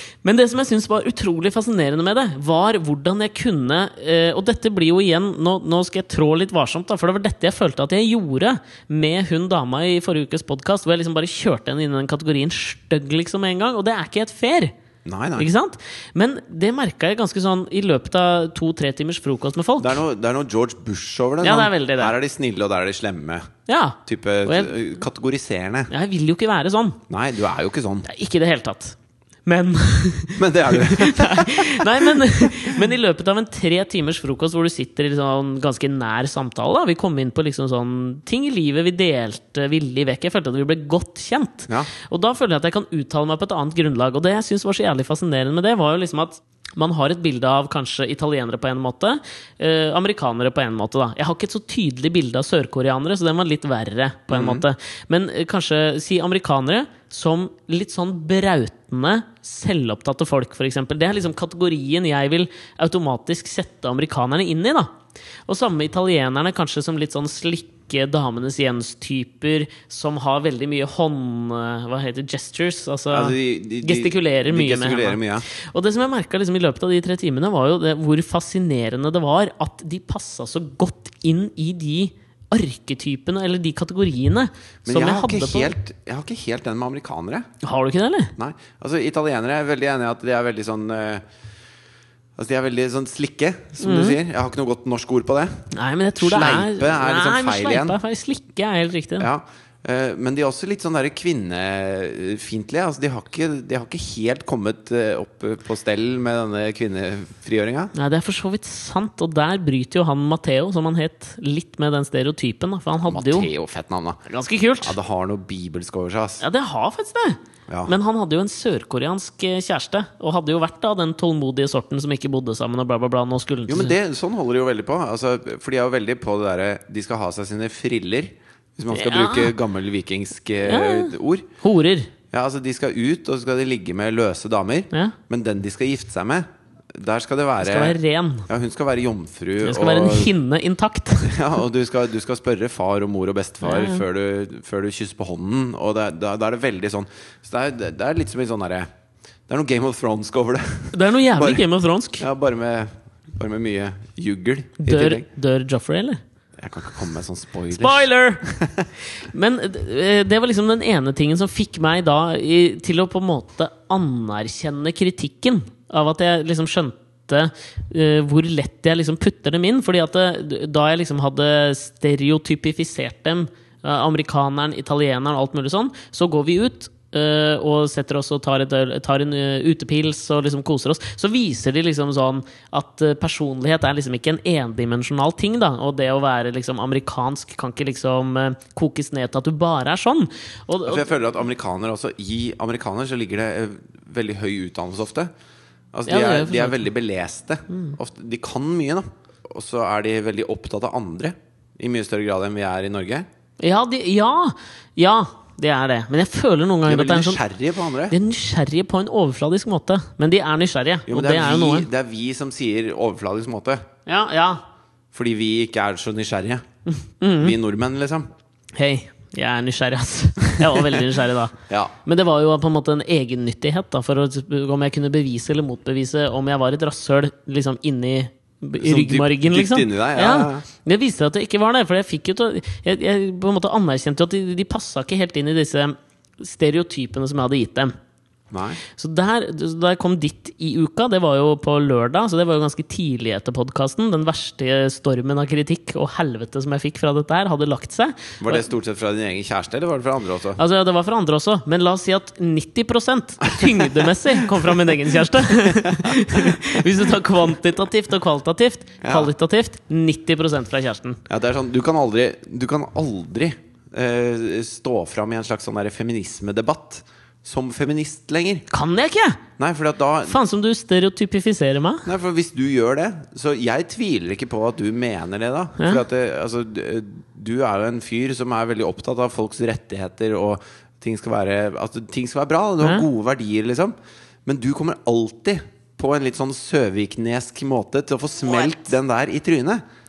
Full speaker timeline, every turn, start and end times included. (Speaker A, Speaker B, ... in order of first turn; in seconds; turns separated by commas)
Speaker A: 0.2-14.7, Speaker B: 15.1-15.5, Speaker A: 15.4-20.0, Speaker B: 19.8-23.5, Speaker A: 21.4-22.1, Speaker A: 23.7-24.7, Speaker B: 24.1-25.9, Speaker A: 25.9-27.0, Speaker B: 27.1-28.1, Speaker A: 28.1-64.9, Speaker B: 30.4-32.7, Speaker B: 54.3-54.7, Speaker A: 65.5-85.7, Speaker B: 73.1-75.5, Speaker B: 84.8-87.5, Speaker A: 87.6-88.3, Speaker B: 88.4-91.2, Speaker B: 92.4-98.0, Speaker A: 93.8-94.2, Speaker A: 95.7-99.3, Speaker B: 99.2-107.9, Speaker A: 107.9-113.5, Speaker B: 113.1-114.2, Speaker A: 114.3-115.0, Speaker B: 114.8-116.4, Speaker A: 116.4-124.0, Speaker B: 117.7-117.9, Speaker B: 123.7-131.5, Speaker A: 128.9-129.5, Speaker A: 130.6-132.1, Speaker B: 132.3-138.0, Speaker A: 134.9-135.2, Speaker A: 137.6-138.5, Speaker B: 138.5-140.3, Speaker A: 139.6-141.4, Speaker B: 141.2-148.9, Speaker A: 143.6-144.0, Speaker B: 149.5-151.7, Speaker A: 150.9-152.2, Speaker B: 152.2-155.3, Speaker A: 154.8-156.2, Speaker B: 156.6-158.9, Speaker A: 157.7-158.4, Speaker A: 159.1-191.1, Speaker B: 190.8-195.3, Speaker B: 195.9-203.3, Speaker A: 196.1-196.9, Speaker A: 197.7-198.0, Speaker A: 203.6-207.4, Speaker B: 206.8-208.2, Speaker A: 208.1-211.9, Speaker B: 211.1-213.8, Speaker A: 214.1-214.6, Speaker B: 215.1-216.7, Speaker A: 216.9-217.6, Speaker B: 217.4-218.3, Speaker A: 218.8-221.5, Speaker B: 220.6-221.0, Speaker B: 221.7-221.9, Speaker A: 222.1-237.9, Speaker B: 228.8-230.7, Speaker B: 238.5-238.8, Speaker A: 238.9-248.6, Speaker B: 248.4-250.6, Speaker A: 250.6-261.2, Speaker B: 253.4-256.9, Speaker B: 259.0-259.3, Speaker B: 261.3-268.6, Speaker A: 268.7-269.4, Speaker B: 269.6-270.4, Speaker A: 270.3-272.1, Speaker B: 272.1-283.9, Speaker B: 284.5-289.8